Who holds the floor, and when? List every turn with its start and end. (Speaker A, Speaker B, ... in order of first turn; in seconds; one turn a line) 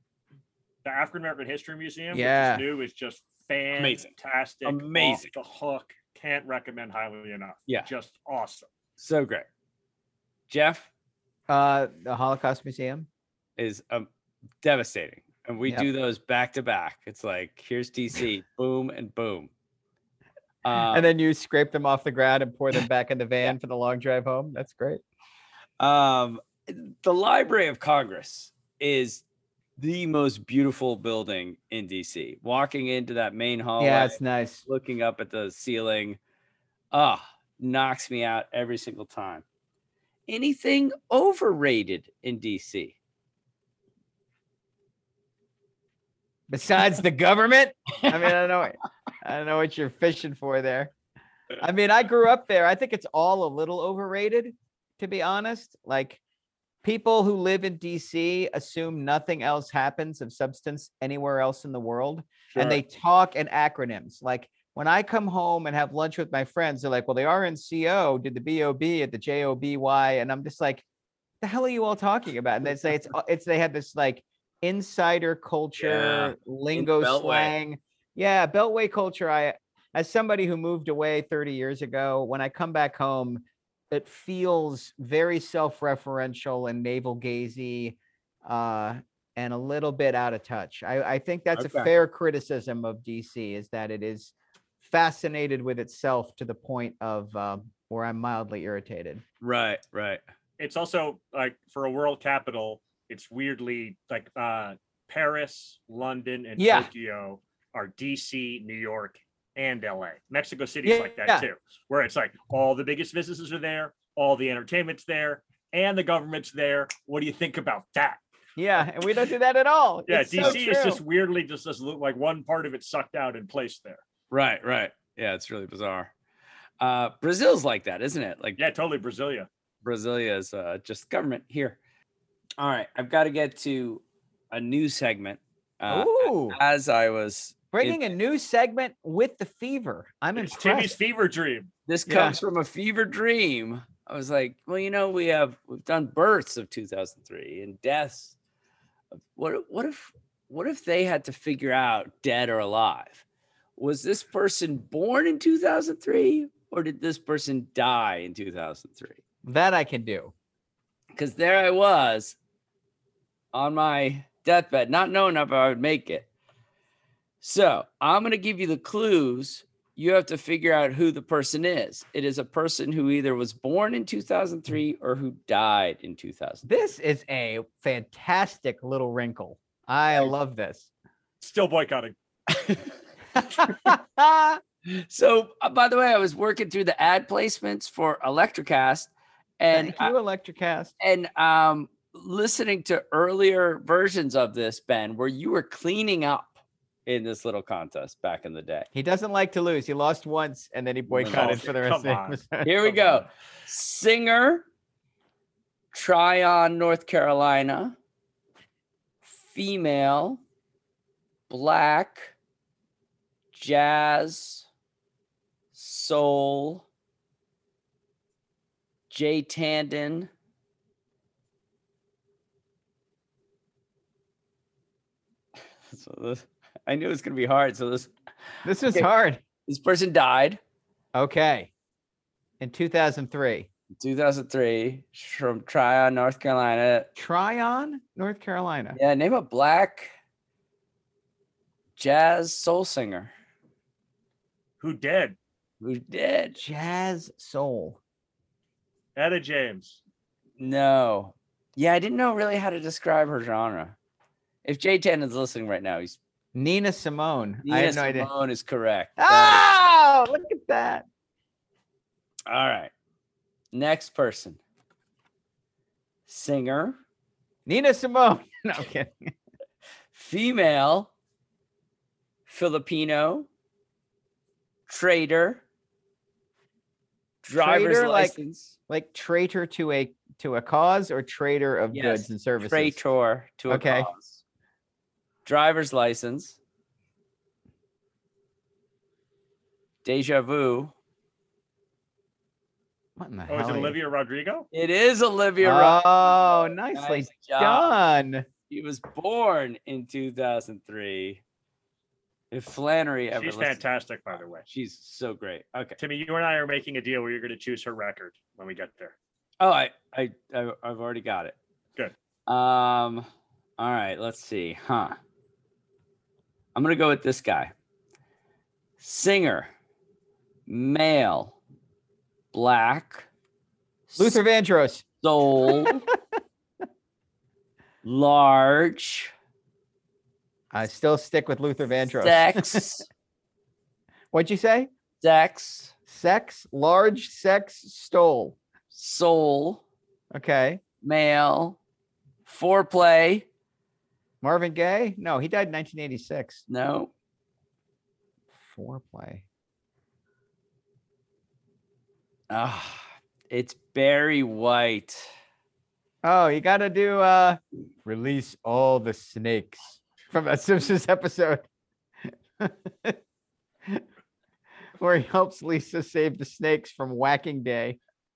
Speaker A: 0.8-8.7
Speaker B: 2.1-2.6
Speaker C: 3.8-4.1
Speaker C: 4.7-5.3
Speaker C: 9.0-9.5
Speaker C: 10.5-10.9
Speaker B: 11.5-13.1
Speaker C: 13.6-14.1
Speaker C: 14.6-19.5
Speaker C: 20.6-21.1
Speaker B: 20.9-25.0
Speaker C: 25.8-29.2
Speaker C: 29.8-36.2
Speaker B: 33.8-34.6
Speaker C: 36.9-39.4
Speaker C: 40.3-43.0
Speaker B: 46.5-50.9
Speaker B: 51.6-56.2
Speaker B: 56.8-70.8
Speaker A: 62.5-62.8
Speaker B: 71.4-99.2
Speaker C: 75.8-77.5
Speaker C: 91.6-91.9
Speaker C: 99.4-100.2
Speaker A: 100.6-118.2
Speaker B: 106.6-106.9
Speaker B: 110.8-111.4
Speaker B: 118.6-121.0
Speaker A: 120.1-124.0
Speaker C: 124.3-126.1
Speaker C: 126.8-128.6
Speaker A: 128.6-129.5
Speaker C: 129.8-131.8
Speaker C: 132.6-138.1
Speaker B: 135.9-136.6
Speaker B: 137.7-141.0
Speaker A: 140.4-141.7
Speaker C: 141.9-148.3
Speaker B: 142.1-142.4
Speaker C: 149.2-153.2
Speaker C: 153.8-159.2
Speaker B: 159.4-160.3
Speaker C: 161.2-162.4
Speaker C: 163.5-166.3
Speaker C: 167.4-176.7
Speaker B: 176.7-180.9
Speaker A: 181.4-182.2
Speaker B: 183.6-184.6
Speaker C: 184.9-190.1
Speaker B: 189.7-190.9
Speaker C: 191.0-198.9
Speaker B: 198.9-202.7
Speaker C: 201.1-201.7
Speaker A: 201.3-203.1
Speaker C: 202.6-204.7
Speaker C: 205.9-207.9
Speaker C: 209.2-210.4
Speaker C: 211.5-212.3
Speaker C: 213.5-214.7
Speaker C: 215.7-216.8
Speaker C: 219.1-220.3
Speaker C: 225.9-228.1
Speaker B: 228.7-229.4
Speaker C: 229.7-230.6
Speaker B: 231.2-231.7
Speaker B: 232.6-233.7
Speaker C: 234.0-237.1
Speaker B: 237.2-239.0
Speaker C: 239.0-240.1
Speaker C: 242.0-243.3
Speaker A: 244.8-245.4
Speaker C: 245.8-246.6
Speaker B: 246.6-248.0
Speaker A: 249.2-250.0
Speaker C: 250.6-254.0
Speaker C: 254.7-256.2
Speaker B: 256.5-258.3
Speaker C: 257.6-259.7
Speaker B: 259.2-261.1
Speaker C: 262.5-262.9
Speaker C: 263.7-264.6
Speaker C: 266.3-267.0
Speaker B: 267.7-269.3
Speaker C: 270.1-271.1
Speaker C: 272.5-273.5
Speaker C: 274.9-275.6
Speaker C: 277.4-278.8
Speaker B: 277.6-278.4
Speaker B: 278.9-283.0
Speaker C: 281.9-284.4
Speaker B: 283.7-284.1
Speaker C: 285.4-286.6
Speaker C: 290.0-290.9
Speaker B: 293.2-293.9
Speaker A: 293.5-294.7
Speaker C: 294.7-296.1
Speaker B: 295.6-298.5
Speaker C: 296.9-297.9
Speaker C: 298.7-301.4
Speaker C: 302.5-303.8
Speaker A: 303.4-304.7
Speaker C: 304.6-306.0
Speaker A: 306.0-309.1
Speaker C: 309.6-311.6
Speaker C: 312.5-315.2
Speaker C: 316.8-317.7
Speaker C: 319.0-319.7
Speaker C: 320.7-321.6
Speaker C: 322.5-323.3
Speaker C: 324.1-324.4
Speaker B: 324.2-325.1
Speaker C: 325.2-326.0
Speaker B: 325.6-326.2
Speaker C: 328.0-329.3
Speaker B: 330.7-332.8
Speaker C: 332.2-333.1
Speaker B: 334.3-334.9
Speaker C: 335.2-335.9
Speaker B: 336.1-338.6
Speaker C: 338.9-339.8
Speaker B: 340.3-340.8
Speaker C: 341.0-341.8
Speaker C: 342.5-343.5
Speaker B: 344.4-346.6
Speaker C: 346.7-347.1
Speaker B: 348.6-349.4
Speaker C: 352.5-355.3
Speaker B: 356.2-361.6
Speaker B: 362.2-363.2
Speaker B: 365.0-368.0